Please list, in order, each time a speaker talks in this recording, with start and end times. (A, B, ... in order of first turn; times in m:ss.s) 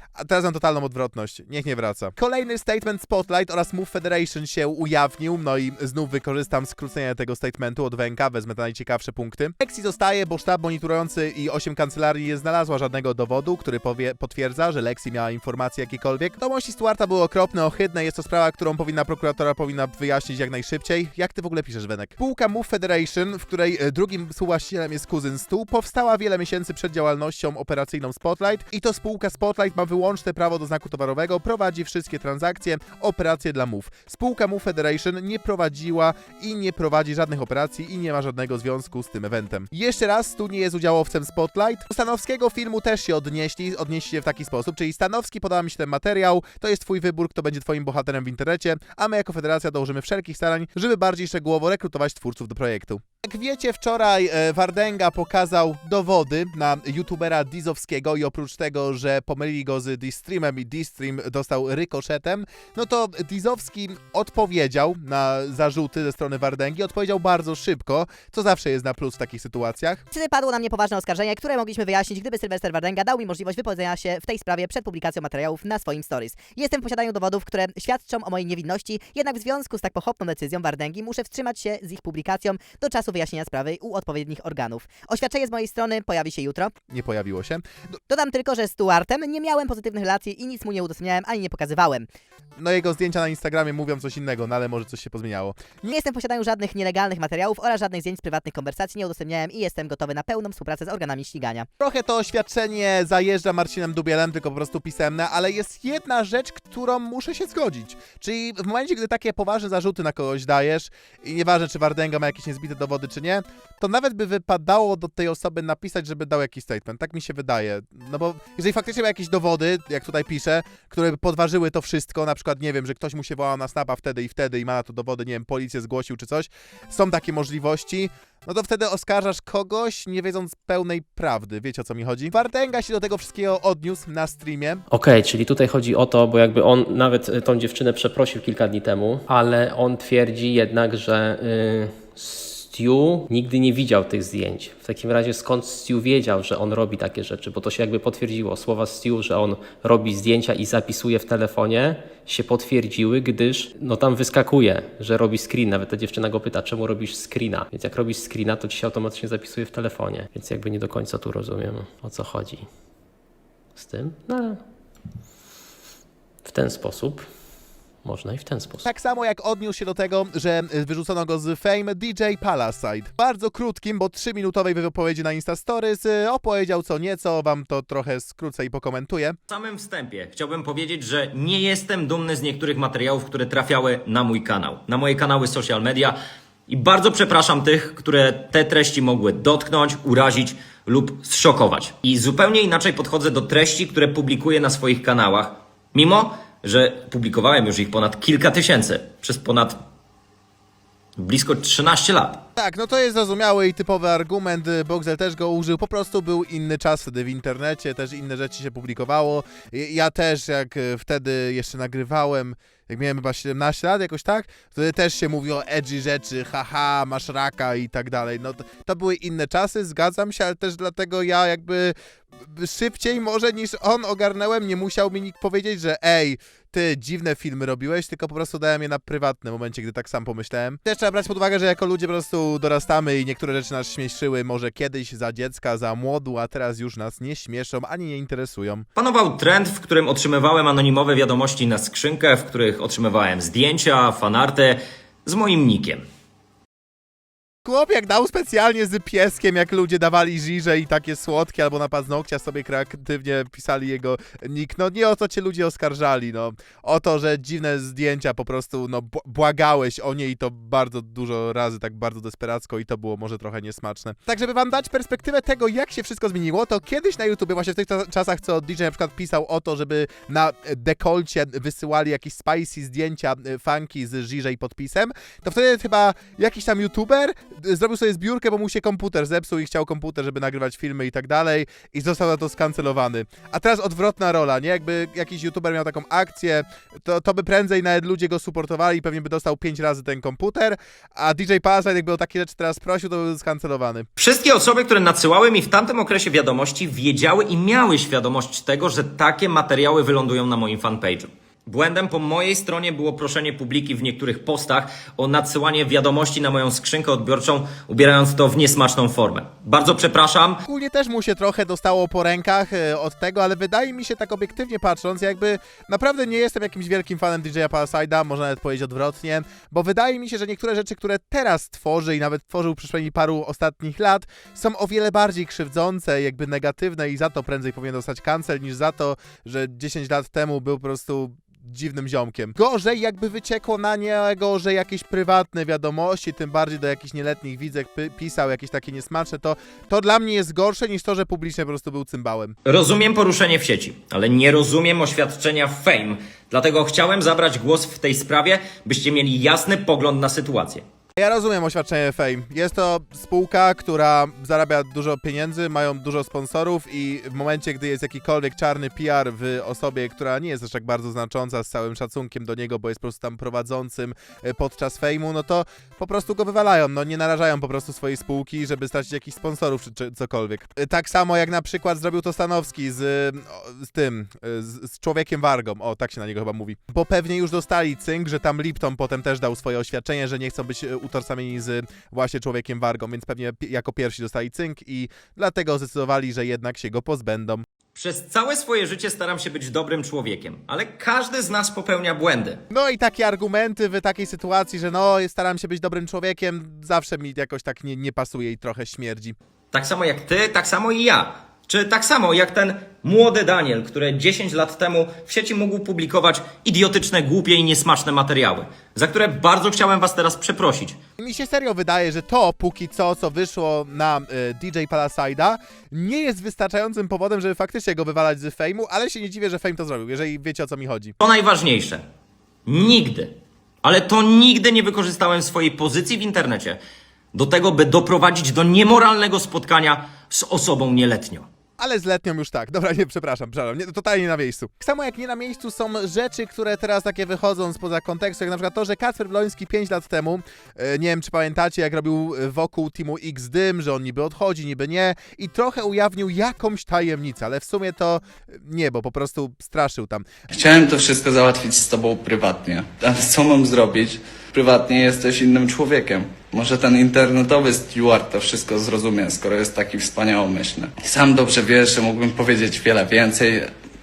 0:00.2-1:10.0 A
1:10.1-1:26.7 B
1:26.9-1:27.6 A
1:28.1-1:32.1 B
1:32.6-1:35.9 A
1:35.9-1:41.7 B
1:41.8-2:14.8 A
2:14.9-2:42.7 C
2:43.8-2:44.6 C
2:46.5-2:47.3 C
2:48.0-2:48.9 C
2:48.8-2:59.4 A
2:59.5-3:06.2 D
3:06.7-3:19.8 D
3:21.2-3:22.4 D
3:22.6-3:58.9 A
3:59.0-4:06.0 D
4:07.6-4:54.1 A
4:54.2-5:10.6 D
5:10.7-5:42.6 A
5:42.7-5:50.8 D
5:51.2-6:27.6 A
6:28.0-6:32.6 D
6:32.7-6:39.4 A
6:39.7-6:51.0 D
6:51.2-7:01.2 A
7:01.2-7:02.0 D
7:02.7-7:03.3 D
7:03.8-7:06.8 D
7:07.3-7:11.4 D
7:11.8-7:30.3 A
7:30.5-7:43.7 E